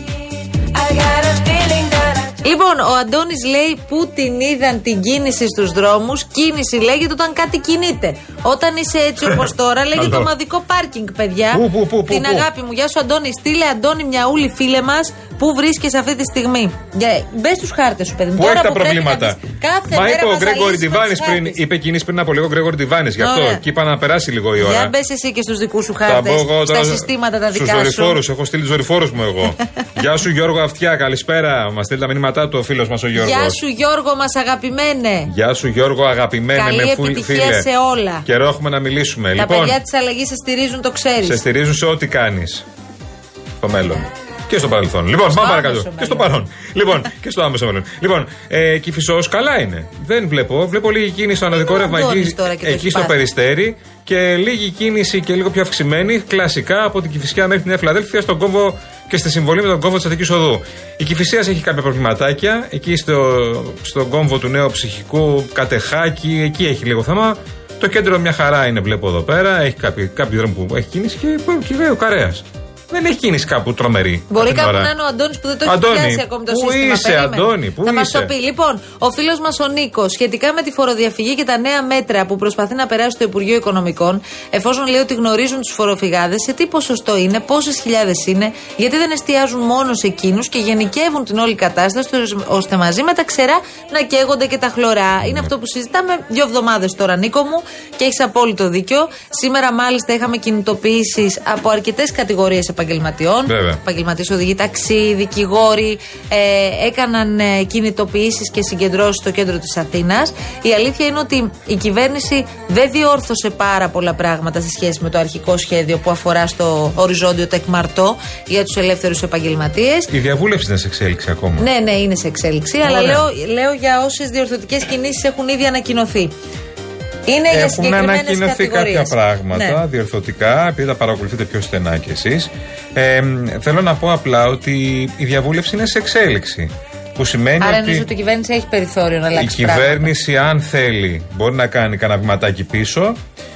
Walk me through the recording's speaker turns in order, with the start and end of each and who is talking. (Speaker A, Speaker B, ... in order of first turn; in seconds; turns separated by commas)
Speaker A: 0.7-21.6, Speaker B: 9.2-10.3, Speaker B: 11.5-12.5, Speaker B: 18.4-19.4, Speaker B: 19.9-24.9, Speaker A: 23.2-23.6, Speaker A: 24.6-28.2, Speaker B: 26.0-33.6, Speaker A: 33.1-35.3, Speaker B: 35.3-37.7, Speaker A: 36.5-38.2, Speaker B: 38.2-39.8, Speaker A: 39.4-41.4, Speaker B: 41.2-42.6, Speaker B: 43.6-74.9, Speaker A: 45.3-46.4, Speaker A: 51.5-53.2, Speaker A: 74.3-120.1, Speaker B: 75.6-78.3, Speaker B: 95.2-95.5, Speaker B: 103.5-103.8, Speaker B: 120.1-121.7, Speaker A: 121.6-126.3, Speaker B: 122.8-123.2, Speaker A: 127.2-129.8, Speaker B: 127.5-138.1, Speaker A: 137.6-140.1, Speaker B: 139.4-143.2